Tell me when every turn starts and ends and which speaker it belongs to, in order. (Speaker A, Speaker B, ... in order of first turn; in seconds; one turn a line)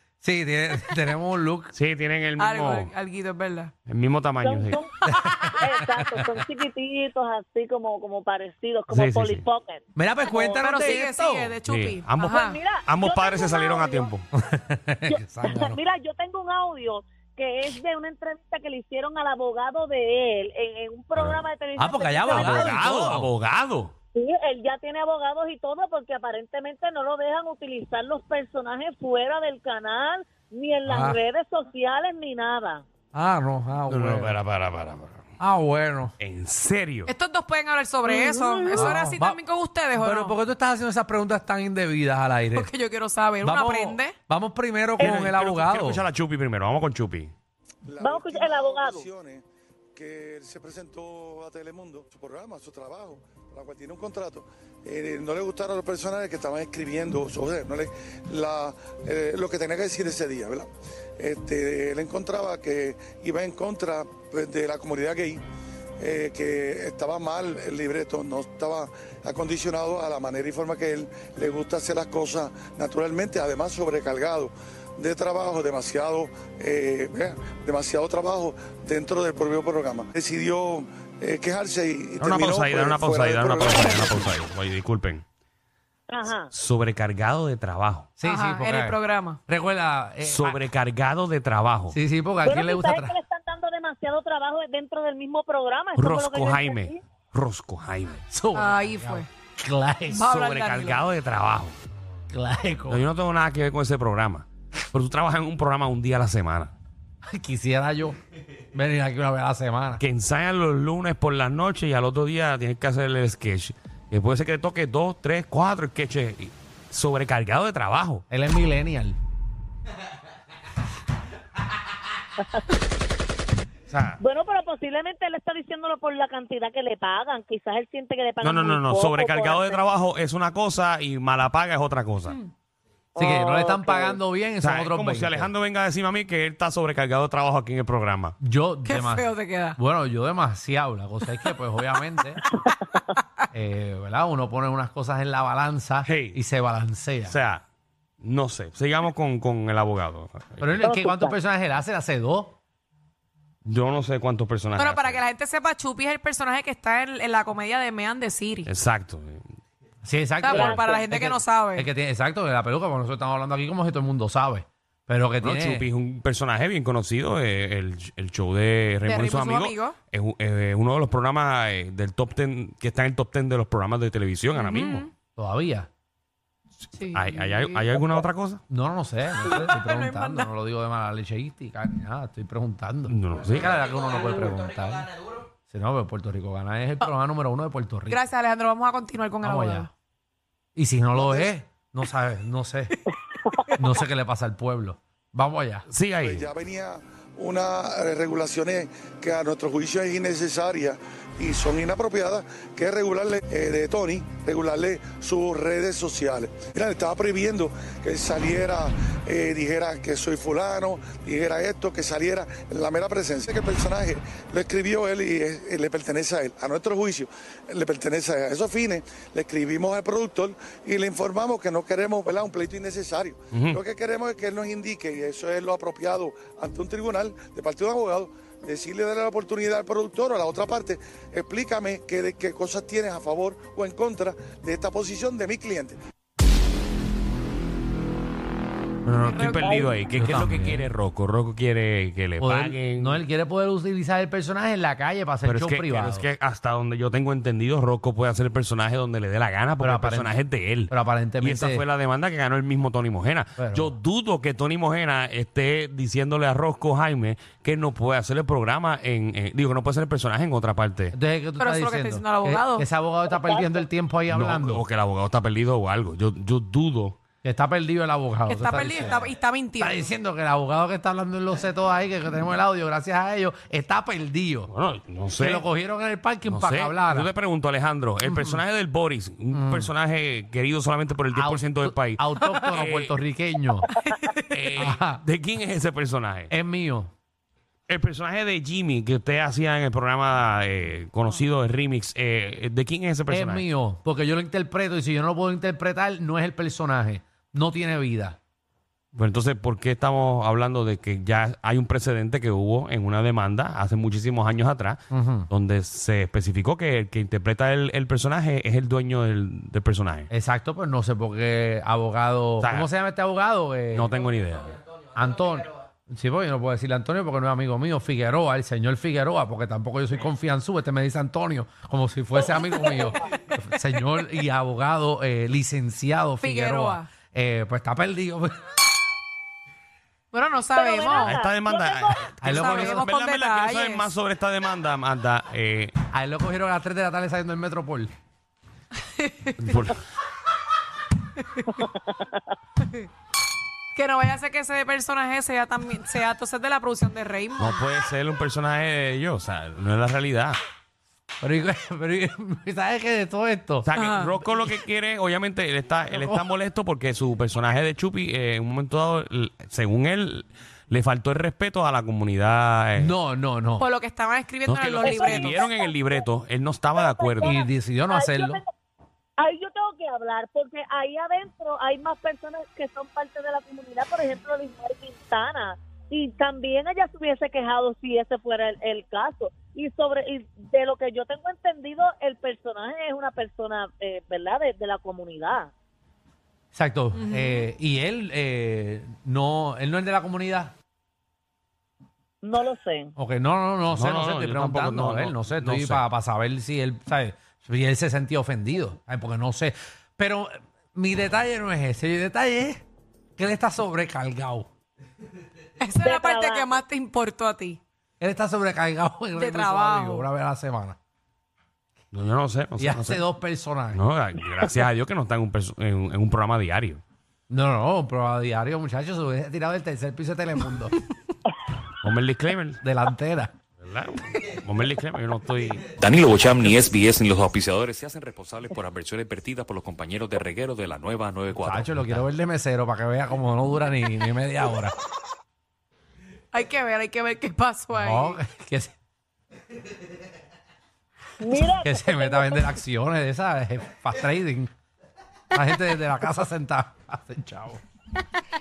Speaker A: 0.2-1.7
Speaker B: 1.7-2.9
Speaker C: 2.4-3.7
Speaker B: 3.9-4.8
Speaker D: 4.4-4.9
Speaker A: 5.1-6.3
Speaker D: 5.5-9.8
Speaker B: 8.9-9.4
Speaker A: 9.9-11.6
Speaker C: 10.4-12.6
Speaker B: 11.7-14.2
Speaker D: 12.2-14.1
Speaker A: 14.3-15.8
Speaker D: 15.1-22.9
Speaker B: 21.1-21.4
Speaker A: 21.8-23.3
Speaker B: 22.3-23.9
Speaker D: 24.1-32.8
Speaker A: 30.9-31.2
Speaker A: 33.1-34.4
Speaker B: 33.9-35.3
Speaker A: 35.4-36.1
Speaker B: 36.2-37.1
Speaker C: 37.1-40.3
Speaker D: 38.1-38.9
Speaker A: 38.7-39.4
Speaker A: 39.9-42.7
Speaker C: 42.5-44.1
Speaker A: 43.4-46.0
Speaker B: 45.0-47.3
Speaker E: 47.9-49.4
Speaker D: 48.0-49.1
Speaker E: 50.0-65.4
Speaker E: 66.0-84.2
Speaker B: 82.2-85.2
Speaker D: 86.1-86.5
Speaker B: 86.5-88.1
Speaker A: 88.2-90.6
Speaker C: 88.2-89.4
Speaker B: 90.2-92.0
Speaker A: 91.9-93.2
Speaker D: 92.4-97.0
Speaker B: 96.0-98.2
Speaker A: 98.3-100.3
Speaker C: 98.5-99.3
Speaker B: 100.1-101.8
Speaker C: 100.1-101.0
Speaker A: 102.3-103.1
Speaker B: 102.9-106.7
Speaker A: 107.2-108.2
Speaker A: 108.7-110.0
Speaker B: 110.0-118.2
Speaker A: 118.3-119.2
Speaker B: 123.9-124.2
Speaker D: 124.2-129.8
Speaker B: 128.4-132.4
Speaker D: 133.1-134.2
Speaker A: 133.2-135.5
Speaker B: 134.6-138.3
Speaker A: 138.4-142.4
Speaker C: 138.8-139.8
Speaker A: 143.5-147.4
Speaker B: 146.0-146.4
Speaker B: 147.2-147.6
Speaker B: 148.2-150.8
Speaker A: 150.6-152.6
Speaker D: 150.8-151.3
Speaker B: 153.6-155.2
Speaker C: 154.7-158.7
Speaker B: 158.7-159.4
Speaker A: 160.0-165.8
Speaker C: 160.4-161.9
Speaker D: 160.5-161.1
Speaker B: 165.4-175.1
Speaker C: 169.1-169.9
Speaker C: 174.5-175.1
Speaker A: 175.3-175.9
Speaker C: 176.9-178.0
Speaker B: 177.1-178.6
Speaker A: 178.7-185.1
Speaker C: 179.4-180.5
Speaker B: 183.1-183.8
Speaker A: 185.7-188.2
Speaker C: 188.1-189.9
Speaker A: 189.4-189.9
Speaker A: 190.8-192.9
Speaker E: 191.1-191.5
Speaker D: 193.4-193.7
Speaker A: 193.7-195.8
Speaker B: 195.9-196.5
Speaker E: 196.2-236.0
Speaker B: 223.5-223.8
Speaker B: 239.0-243.2
Speaker C: 239.2-239.7
Speaker D: 239.6-240.0
Speaker A: 240.1-240.9
Speaker A: 242.4-246.3
Speaker B: 245.4-261.1
Speaker A: 249.8-251.8
Speaker A: 253.6-253.9
Speaker A: 261.1-264.8
Speaker C: 261.6-262.8
Speaker D: 263.3-263.8
Speaker B: 264.3-267.2
Speaker A: 267.4-269.3
Speaker C: 268.5-270.0
Speaker A: 269.8-274.7
Speaker B: 274.7-275.6
Speaker A: 275.4-277.3
Speaker B: 276.5-283.1
Speaker A: 279.5-279.9
Speaker A: 281.3-283.9
Speaker C: 284.1-284.6
Speaker B: 284.5-286.5
Speaker A: 284.8-285.2
Speaker A: 286.5-287.1
Speaker B: 287.9-293.6
Speaker A: 293.3-298.4
Speaker B: 299.1-310.3
Speaker A: 305.1-305.5
Speaker A: 310.3-314.1
Speaker B: 312.6-312.9
Speaker B: 313.9-314.8
Speaker A: 315.1-328.6
Speaker C: 326.4-327.1
Speaker C: 330.3-331.3
Speaker D: 330.7-332.3
Speaker B: 331.2-335.9
Speaker A: 332.4-333.0
Speaker C: 332.5-334.1
Speaker A: 336.1-338.1
Speaker C: 339.2-339.8
Speaker B: 339.6-340.0
Speaker D: 341.7-342.3
Speaker C: 343.9-347.8
Speaker B: 347.6-350.6
Speaker A: 351.4-353.9
Speaker B: 353.9-363.1
Speaker C: 353.9-354.4
Speaker A: 362.9-363.9
Speaker C: 363.8-365.6
Speaker B: 364.6-367.5
Speaker D: 365.0-366.3
Speaker D: 366.9-368.7
Speaker A: 367.4-368.6
Speaker D: 369.4-385.7
Speaker A: 386.7-390.7
Speaker C: 387.1-387.7
Speaker D: 392.4-393.1
Speaker A: 393.1-402.8
Speaker B: 393.9-396.0
Speaker A: 403.4-404.7
Speaker C: 405.8-407.8
Speaker D: 406.0-406.8
Speaker A: 408.2-411.0
Speaker C: 409.3-410.3
Speaker B: 412.1-413.2
Speaker A: 412.8-414.0
Speaker B: 413.9-417.0
Speaker A: 417.5-420.9
Speaker B: 422.0-422.8
Speaker A: 422.8-423.5
Speaker B: 423.8-426.0
Speaker F: 426.0-432.2
Speaker A: 431.6-434.9
Speaker C: 436.5-438.4
Speaker A: 437.9-438.9
Speaker D: 441.4-442.7
Speaker A: 441.8-444.7
Speaker A: 445.5-447.8